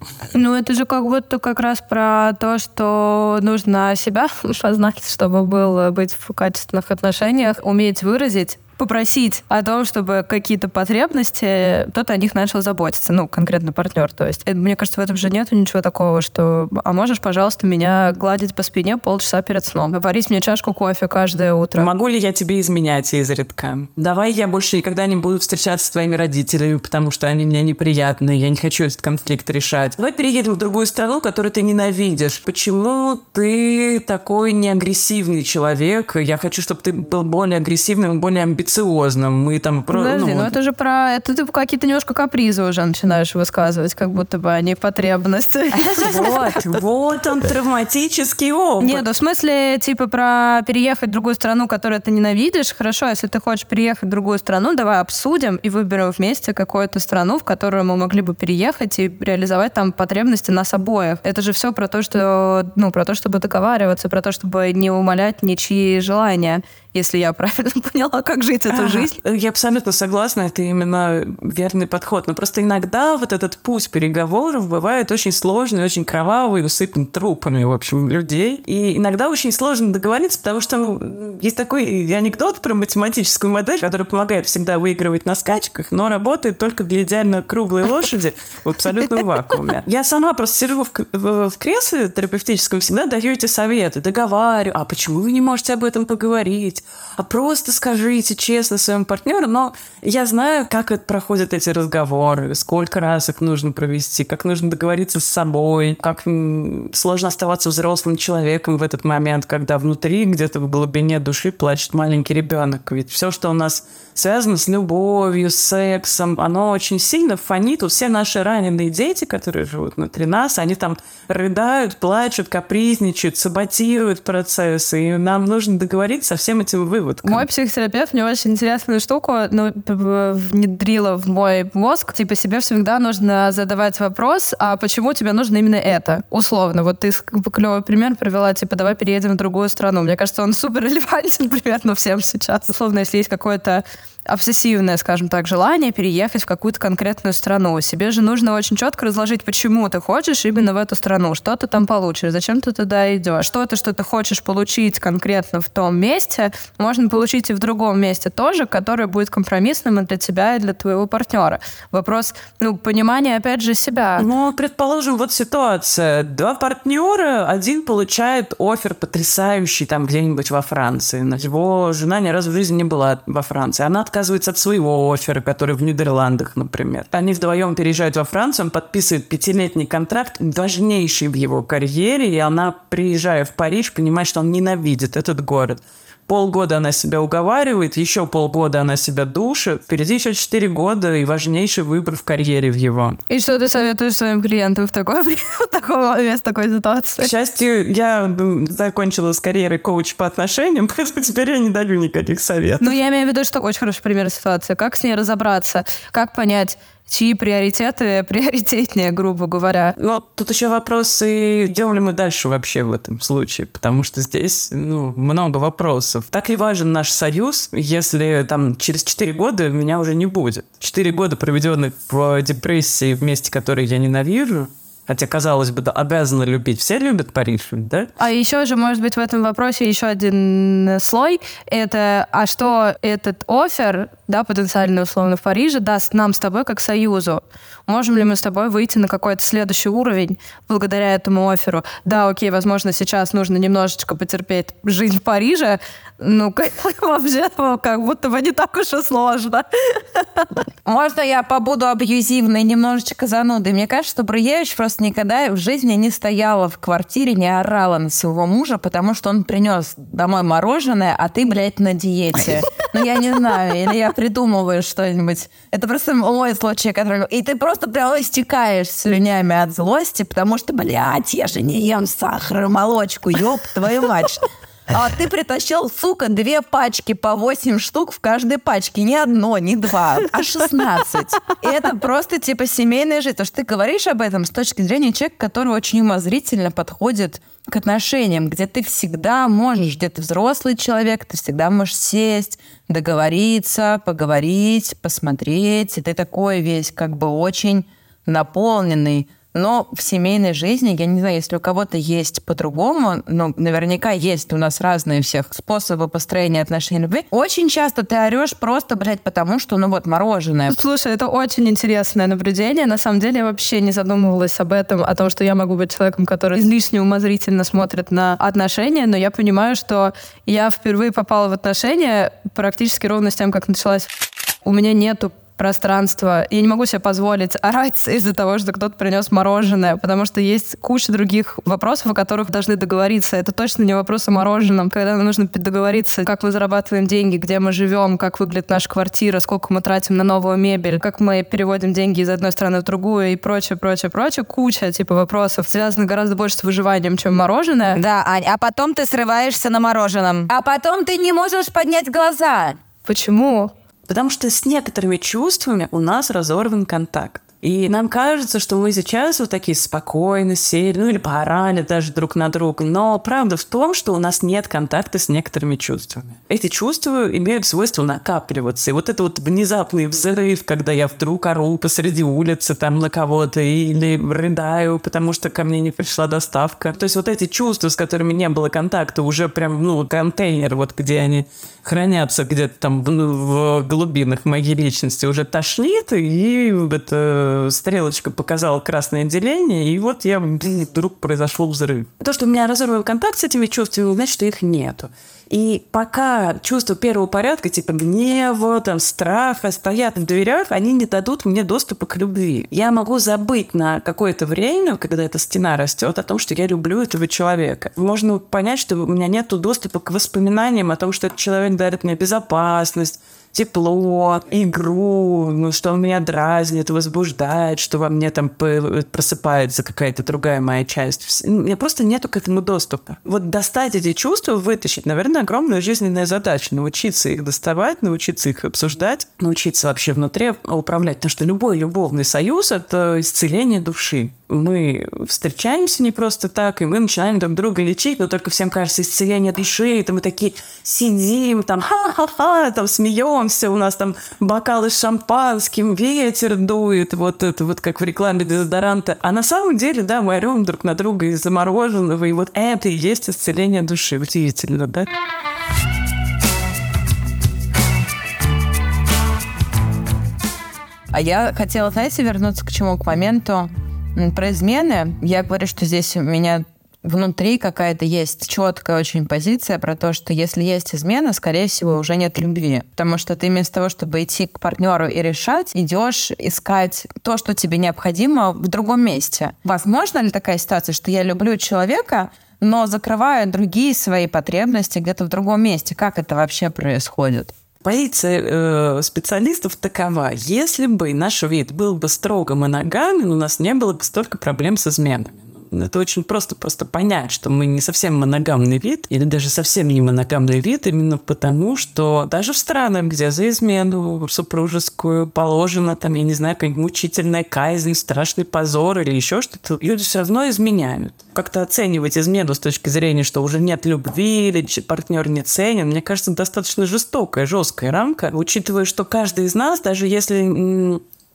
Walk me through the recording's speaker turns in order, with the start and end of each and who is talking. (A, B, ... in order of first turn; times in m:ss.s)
0:00.3-0:21.9 A
0:21.8-0:40.5 B
0:39.9-0:46.8 A
0:45.8-0:49.0 B
0:48.8-1:09.1 A
1:08.7-2:07.5 B
2:07.2-2:44.3 A
2:44.2-3:13.2 B
3:13.3-3:17.3 A
3:17.2-3:22.9 B
3:22.8-3:30.0 A
3:30.0-3:48.1 B
3:48.2-4:10.5 A
4:10.8-5:10.8 C
5:10.7-5:24.1 A
5:24.6-5:48.0 A
5:47.9-5:50.5 D
5:50.5-5:52.8 C
5:53.0-5:53.7 A
5:54.1-7:35.1 B
7:41.1-8:07.5 C
8:07.8-8:41.0 B